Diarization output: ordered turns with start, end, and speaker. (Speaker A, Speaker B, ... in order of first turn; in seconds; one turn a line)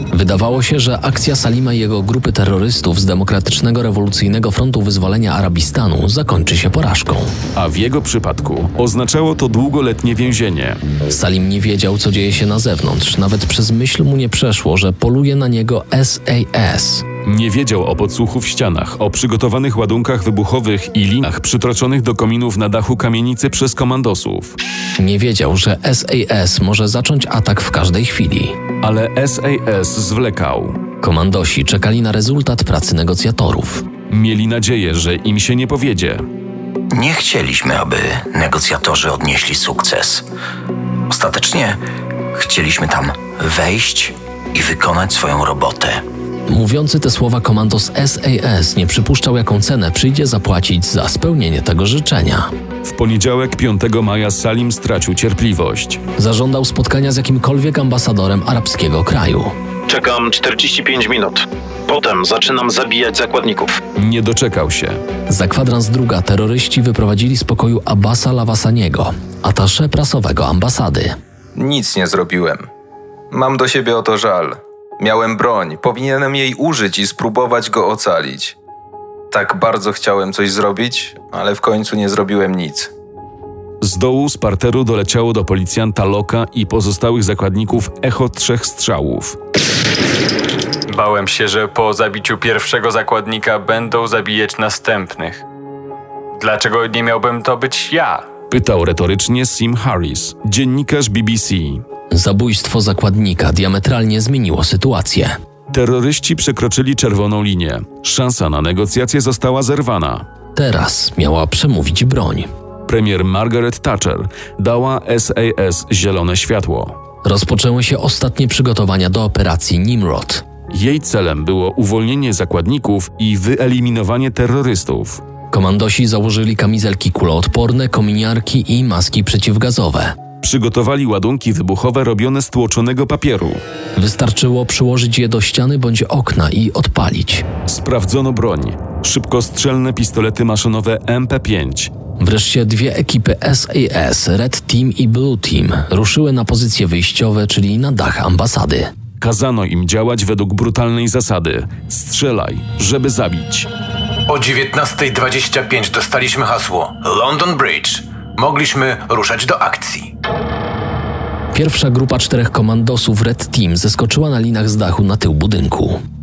Speaker A: 0.1-7.3
Speaker B: 7.5-10.8
Speaker A: 11.1-17.1
Speaker B: 17.2-24.6
Speaker A: 25.0-28.6
Speaker B: 28.8-30.8
Speaker A: 31.0-33.9
Speaker B: 34.1-36.2
Speaker C: 36.9-40.2
Speaker C: 41.1-41.8
Speaker C: 42.3-46.0
Speaker A: 46.5-52.5
Speaker B: 52.9-56.0
Speaker A: 56.2-59.5
Speaker D: 59.9-63.8
Speaker B: 64.0-65.0
Speaker A: 65.3-71.2
Speaker E: 71.6-72.7
Speaker E: 73.3-78.6
Speaker E: 79.3-82.9
Speaker B: 83.8-89.4
Speaker F: 90.9-95.4
Speaker F: 96.4-98.3
Speaker B: 98.5-101.8
Speaker A: 102.1-105.3
Speaker B: 105.7-110.3
Speaker A: 110.5-112.5
Speaker B: 112.9-117.0
Speaker A: 117.2-120.4
Speaker B: 120.7-125.2
Speaker A: 125.5-130.2
Speaker B: 130.4-133.6
Speaker A: 134.0-137.5
Speaker B: 137.7-141.9
Speaker A: 142.2-148.9
Speaker B: 149.2-153.7
Speaker G: 154.3-160.1
Speaker A: 161.5-166.0